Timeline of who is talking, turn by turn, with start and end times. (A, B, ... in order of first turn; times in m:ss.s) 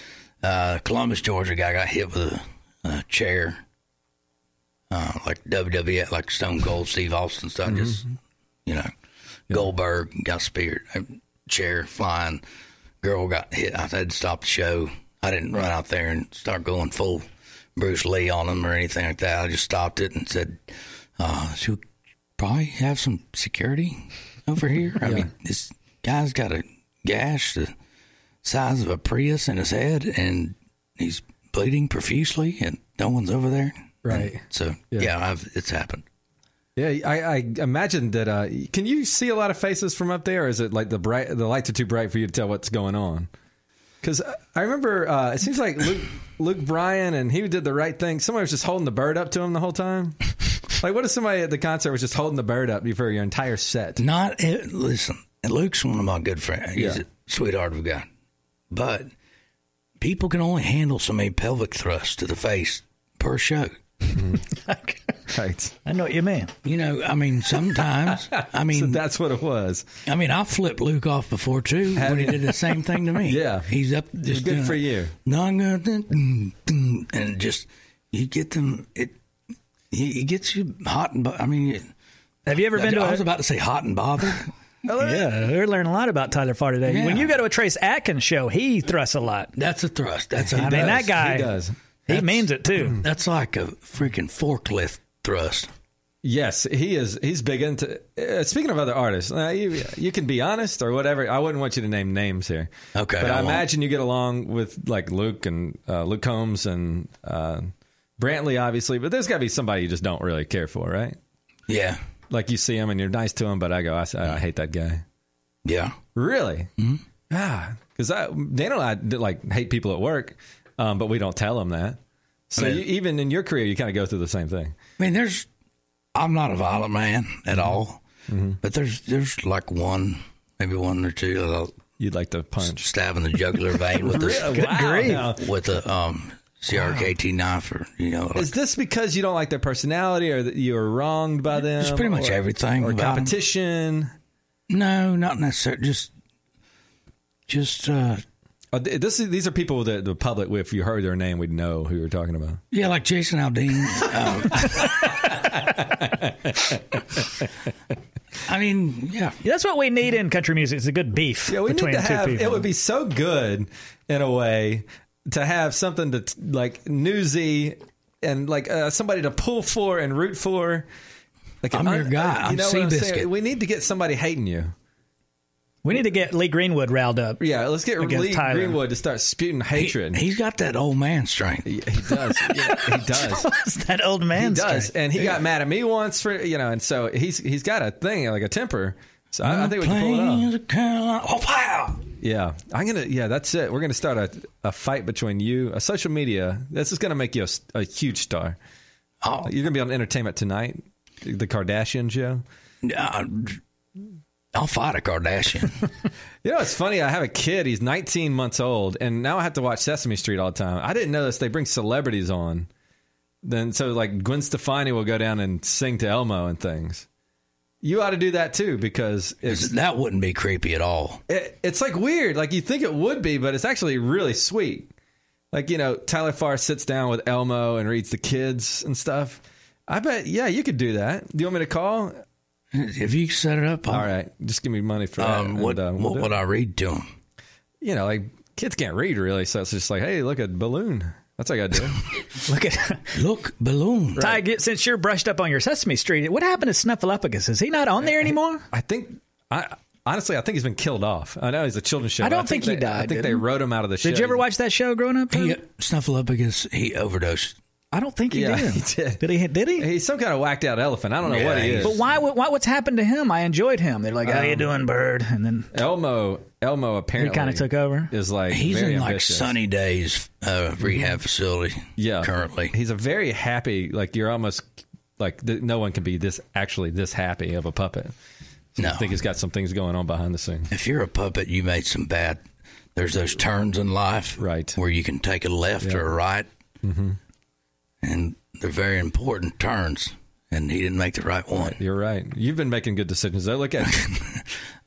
0:00.4-0:03.6 A
0:04.9-0:08.1 A
0:07.7-0:08.0 B
0:09.5-0:12.4 A
0:13.0-0:21.8 A
0:22.4-0:27.7 A
0:25.0-0:25.3 B
0:28.4-0:36.0 A
0:34.0-0:34.4 B
0:36.8-0:43.3 B
0:44.0-0:54.0 B
0:54.0-0:58.1 A
0:56.8-0:57.0 B
0:58.7-0:59.1 A
1:00.0-1:03.8 A
1:04.1-1:04.4 B
1:04.6-1:05.0 C
1:05.3-1:05.8 B
1:05.8-1:06.5 C
1:06.6-1:09.0 A
1:08.4-1:09.9 B
1:10.1-1:19.2 A
1:12.0-1:13.7 B
1:14.3-1:15.1 B
1:19.9-1:21.9 A
1:22.5-1:23.2 C
1:22.7-1:24.5 A
1:24.9-1:25.3 B
1:24.9-1:29.6 C
1:26.9-1:27.3 A
1:29.6-1:31.1 A
1:30.4-1:32.5 B
1:30.6-1:31.5 C
1:32.1-1:33.0 C
1:33.0-1:35.7 A
1:36.2-1:51.2 B
1:43.0-1:43.6 A
1:51.7-1:52.0 A
1:52.3-1:55.0 B
1:55.6-1:56.0 A
1:56.1-1:56.7 B
1:57.3-2:02.0 B
2:02.5-2:04.8 B
2:02.6-2:02.8 A
2:05.0-2:05.5 A
2:06.1-2:08.0 A
2:08.3-2:08.6 B
2:08.6-2:11.8 A
2:12.0-2:12.9 B
2:12.6-2:18.5 A
2:13.9-2:15.5 B
2:14.4-2:15.3 C
2:16.7-2:17.1 B
2:18.4-2:24.1 B
2:21.7-2:23.3 A
2:24.7-2:26.1 A
2:27.5-2:28.2 A
2:28.7-2:32.6 B
2:32.7-2:35.4 A
2:34.5-2:37.0 B
2:38.4-2:39.4 A
2:39.4-2:42.6 C
2:41.5-2:50.9 B
2:51.6-2:54.7 B
2:51.7-2:53.3 A
2:55.8-2:57.4 C
2:57.4-3:00.2 B
2:58.0-2:58.8 C
2:59.8-3:01.7 A
3:01.6-3:03.5 B
3:02.5-3:04.9 C
3:04.4-3:10.5 B
3:09.4-3:12.1 A
3:12.2-3:18.6 B
3:19.2-3:19.5 A
3:19.4-3:22.4 B
3:22.8-3:23.6 A
3:24.5-3:25.8 A
3:26.4-3:32.7 B
3:33.4-3:37.0 B
3:37.8-3:39.7 B
3:39.5-3:41.2 A
3:41.3-3:44.9 B
3:45.5-3:52.2 B
3:52.7-3:54.1 A
3:53.9-3:56.3 B
3:55.2-3:57.1 A
3:57.8-4:02.1 B
4:02.4-4:03.1 C
4:03.1-4:04.4 A
4:04.2-4:08.6 C
4:08.7-4:14.4 B
4:12.2-4:13.4 C
4:14.0-4:15.6 C
4:15.3-4:17.6 A
4:17.9-4:19.9 C
4:18.3-4:19.2 B
4:19.8-4:22.0 B
4:21.2-4:22.0 A
4:21.8-4:25.7 C
4:24.2-4:24.7 B
4:25.7-4:29.5 B
4:27.2-4:28.1 C
4:28.5-4:32.7 A
4:30.8-4:31.1 B
4:32.0-4:34.6 B
4:35.2-4:38.1 B
4:38.8-4:40.7 B
4:38.8-4:39.1 A
4:40.7-4:42.4 A
4:43.0-4:46.5 A
4:44.4-4:44.8 B
4:46.8-4:47.2 B
4:48.0-4:51.8 A
4:51.6-4:54.1 B
4:53.9-4:54.4 A